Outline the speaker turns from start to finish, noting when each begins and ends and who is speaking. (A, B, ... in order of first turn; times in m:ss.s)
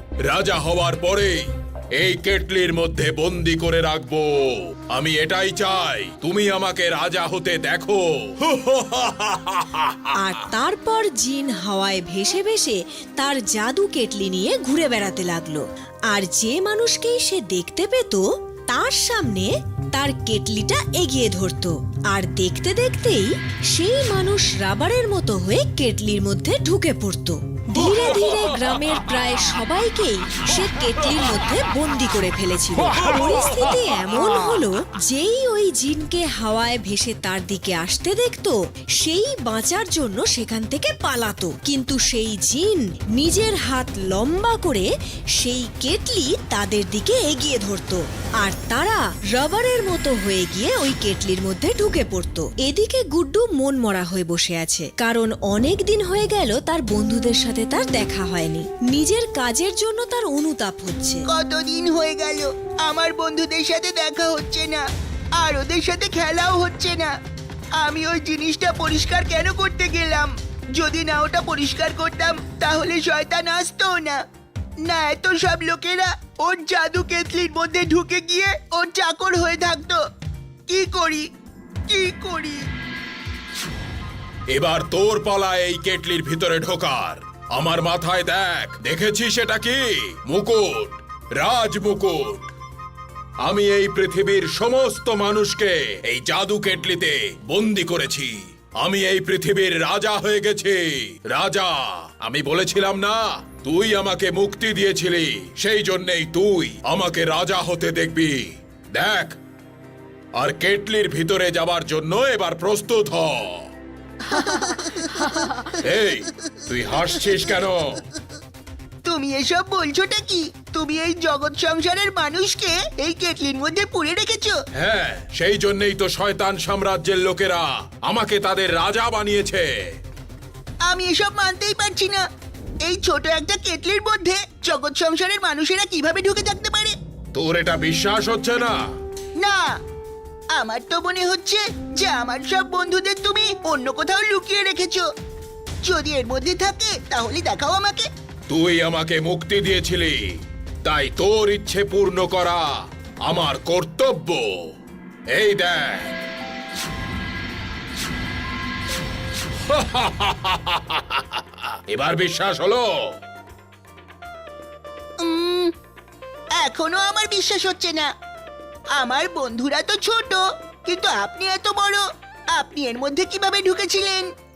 0:00.2-0:10.1 A
0:10.1-1:01.2 B
1:01.3-1:04.8 C
1:05.4-1:07.1 C
1:07.8-1:14.2 C
1:14.9-1:20.0 C
1:20.7-1:21.2 C
1:21.9-1:22.6 C
1:24.5-1:32.5 A
1:33.4-1:49.4 A
1:50.4-1:53.7 A
1:54.3-1:55.3 C
1:55.8-1:58.0 A
1:59.0-2:04.6 C
2:04.7-2:09.7 A
2:10.9-2:12.2 C
2:12.8-2:16.9 C
2:17.3-2:18.8 A
2:19.4-2:19.6 C
2:20.6-2:25.0 C
2:25.8-2:28.0 C
2:28.5-2:32.7 A
2:33.2-2:34.7 A
2:35.3-2:36.2 A
2:39.6-2:42.9 A
2:45.2-2:45.7 C
2:46.6-2:48.1 C
2:49.0-2:54.3 C